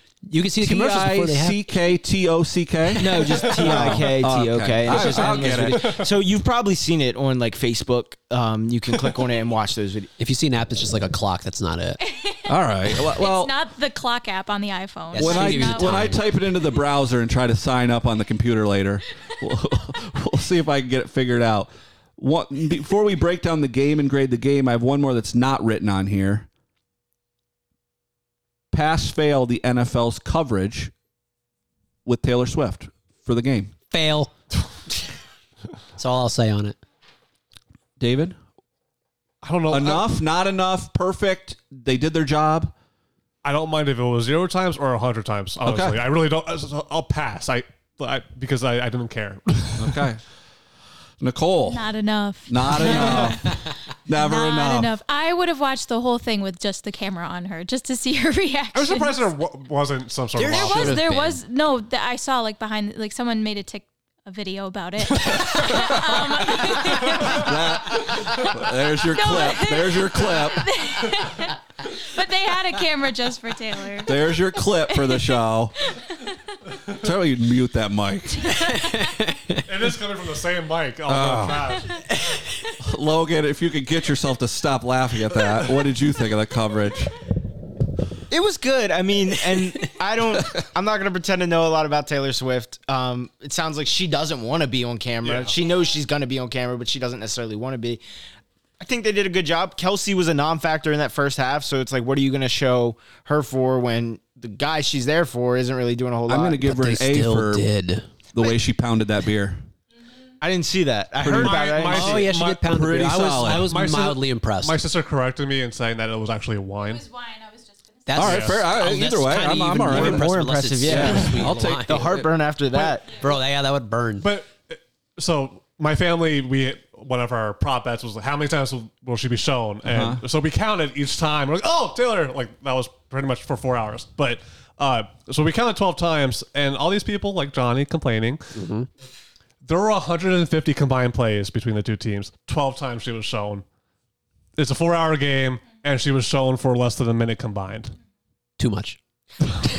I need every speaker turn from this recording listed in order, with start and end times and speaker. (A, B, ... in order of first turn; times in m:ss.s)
0:00.3-0:01.6 A
0:00.6-0:06.1 B
0:03.0-0:10.1 C
0:04.9-0:06.1 D
0:10.2-0:12.0 A
0:12.0-0:16.3 E
0:12.5-0:13.5 B
0:15.1-0:16.2 A
0:15.2-0:26.5 B
0:28.7-0:30.9 B
0:32.0-0:33.8 B
0:33.9-0:34.3 A
0:36.0-0:36.8 A
0:38.0-0:38.4 B
0:39.4-0:40.1 D
0:39.7-0:42.7 B
0:43.4-0:50.0 D
0:45.6-0:46.0 B
0:49.8-0:50.2 B
0:51.2-0:51.8 B
0:51.7-0:53.6 E
0:52.5-0:54.9 B
0:52.8-0:53.2 D
0:54.1-0:59.3 E
0:58.7-1:01.0 D
1:00.4-1:01.4 A
1:00.5-1:08.2 E
1:05.4-1:11.0 B
1:09.0-1:15.4 E
1:14.0-1:15.8 B
1:17.0-1:18.6 B
1:18.4-1:19.1 E
1:18.6-1:19.6 A
1:19.7-1:22.0 D
1:21.1-1:21.8 B
1:22.1-1:22.7 A
1:22.8-1:27.1 B
1:25.5-1:25.8 D
1:28.3-1:38.0 C
1:30.3-1:30.6 B
1:35.2-1:35.5 D
1:38.8-1:46.7 C
1:46.3-1:47.7 B
1:46.6-1:48.1 A
1:48.3-1:49.6 B
1:50.4-1:52.3 C
1:51.2-1:52.8 D
1:51.4-1:54.8 A
1:52.6-1:53.7 B
1:53.3-1:57.0 D
1:57.0-1:57.8 E
1:58.1-2:02.2 A
1:58.1-2:00.3 B
1:58.2-1:58.6 D
1:59.8-2:03.1 C
2:00.8-2:02.3 B
2:03.0-2:04.3 A
2:04.2-2:18.6 D
2:09.8-2:10.2 B
2:18.6-2:18.9 A
2:19.6-2:23.6 D
2:24.6-2:28.0 D
2:28.6-2:29.0 A